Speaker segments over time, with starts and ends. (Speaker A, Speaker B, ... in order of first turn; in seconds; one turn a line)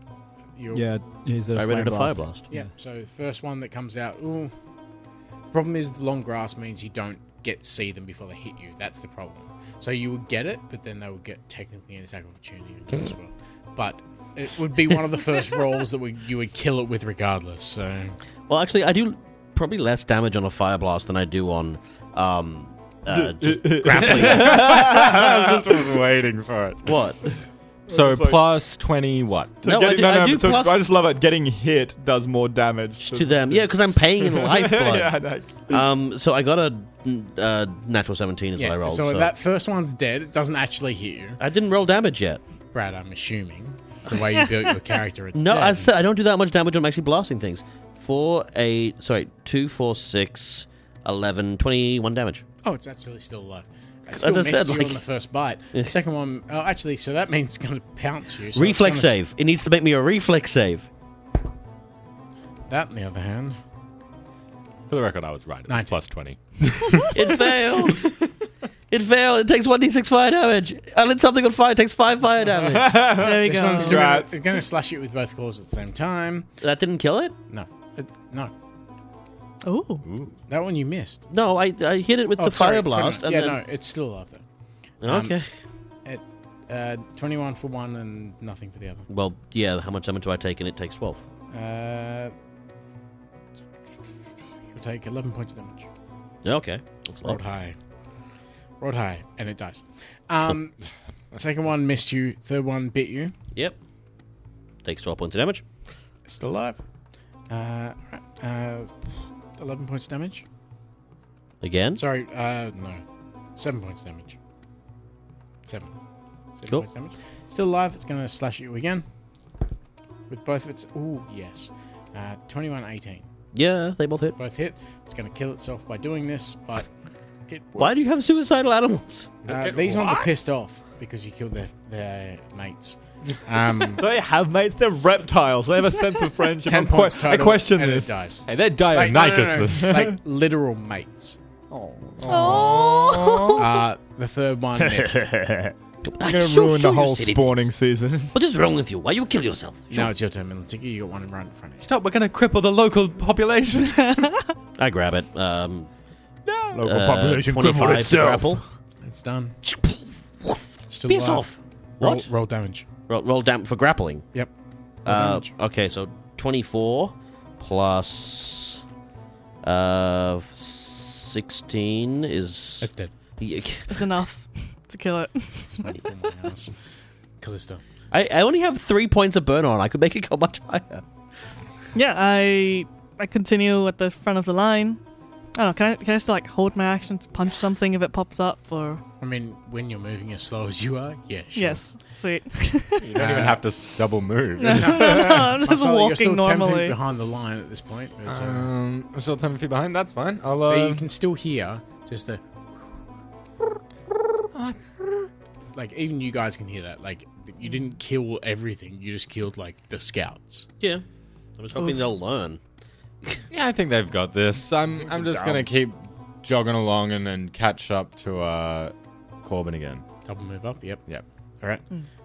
Speaker A: 0.6-0.9
Speaker B: 0.7-2.7
Speaker C: 1.5-2.5
Speaker A: 2.5-4.5
Speaker A: 5.5-18.2
Speaker C: 18.5-24.9
Speaker B: 23.1-25.8
Speaker D: 23.9-27.0
Speaker C: 26.9-27.3
Speaker B: 27.9-28.4
Speaker D: 27.9-29.6
Speaker B: 29.6-35.8
Speaker C: 29.6-30.8
Speaker C: 33.0-39.3
Speaker A: 38.6-41.4
Speaker C: 41.4-42.4
Speaker A: 42.7-45.9
Speaker C: 45.3-52.4
Speaker A: 52.6-59.2
Speaker C: 54.1-55.0
Speaker C: 58.5-60.9
Speaker A: 62.7-63.6
Speaker D: 64.9-67.2
Speaker A: 65.7-66.0
Speaker C: 67.1-68.1
Speaker C: 68.9-73.1
Speaker B: 72.6-74.3
Speaker A: 73.1-76.5
Speaker E: 73.2-74.1
Speaker C: 76.6-77.3
Speaker A: 77.5-78.5
Speaker E: 79.6-80.0
Speaker D: 80.0-80.3
Speaker A: 80.5-81.2
Speaker C: 81.3-83.6
Speaker A: 82.4-84.4
Speaker C: 85.0-85.5
Speaker A: 85.0-85.4
Speaker A: 86.0-89.1
Speaker C: 89.1-91.2
Speaker A: 91.5-92.3
Speaker A: 94.7-95.9
Speaker C: 96.4-97.4
Speaker A: 97.2-97.8
Speaker A: 98.8-100.8
Speaker A: 101.3-103.3
Speaker C: 104.8-105.6
Speaker A: 106.3-106.8
Speaker A: 107.5-109.0
Speaker A: 109.6-110.5
Speaker C: 111.6-112.0
Speaker A: 112.0-113.0
Speaker A: 113.6-114.4
Speaker A: 115.6-115.9
Speaker A: 116.6-119.0
Speaker A: 120.3-123.3
Speaker C: 123.5-124.4
Speaker A: 124.4-126.9
Speaker A: 127.5-128.0
Speaker C: 127.8-129.4
Speaker D: 129.5-130.3
Speaker A: 129.5-134.1
Speaker B: 134.0-138.1
Speaker A: 136.6-141.4
Speaker D: 138.5-140.1
Speaker B: 141.7-143.0
Speaker D: 142.2-143.7
Speaker E: 142.3-143.7
Speaker A: 143.6-145.3
Speaker B: 144.8-148.3
Speaker C: 146.0-147.6
Speaker C: 148.3-150.1
Speaker A: 149.9-151.9
Speaker D: 151.8-154.4
Speaker E: 154.2-154.5
Speaker C: 154.8-155.9
Speaker B: 156.7-158.6
Speaker C: 156.8-158.6
Speaker A: 159.0-159.6
Speaker C: 159.7-162.3
Speaker A: 160.9-162.8
Speaker C: 163.1-164.4
Speaker A: 165.1-165.5
Speaker C: 165.1-168.8
Speaker C: 169.6-173.9
Speaker A: 172.8-173.1
Speaker E: 173.9-176.0
Speaker A: 175.7-176.7
Speaker A: 177.4-177.8
Speaker C: 178.1-181.1
Speaker E: 181.9-185.0
Speaker E: 185.6-189.0
Speaker A: 189.2-191.8
Speaker E: 191.6-193.2
Speaker D: 193.0-195.5
Speaker A: 193.1-193.7
Speaker E: 194.6-197.0
Speaker A: 194.7-198.7
Speaker D: 198.3-201.1
Speaker A: 200.6-202.4
Speaker D: 204.5-205.3
Speaker A: 205.7-210.7
Speaker C: 211.6-212.6
Speaker E: 211.8-212.1
Speaker D: 213.5-220.0
Speaker B: 215.1-215.7
Speaker A: 220.2-221.1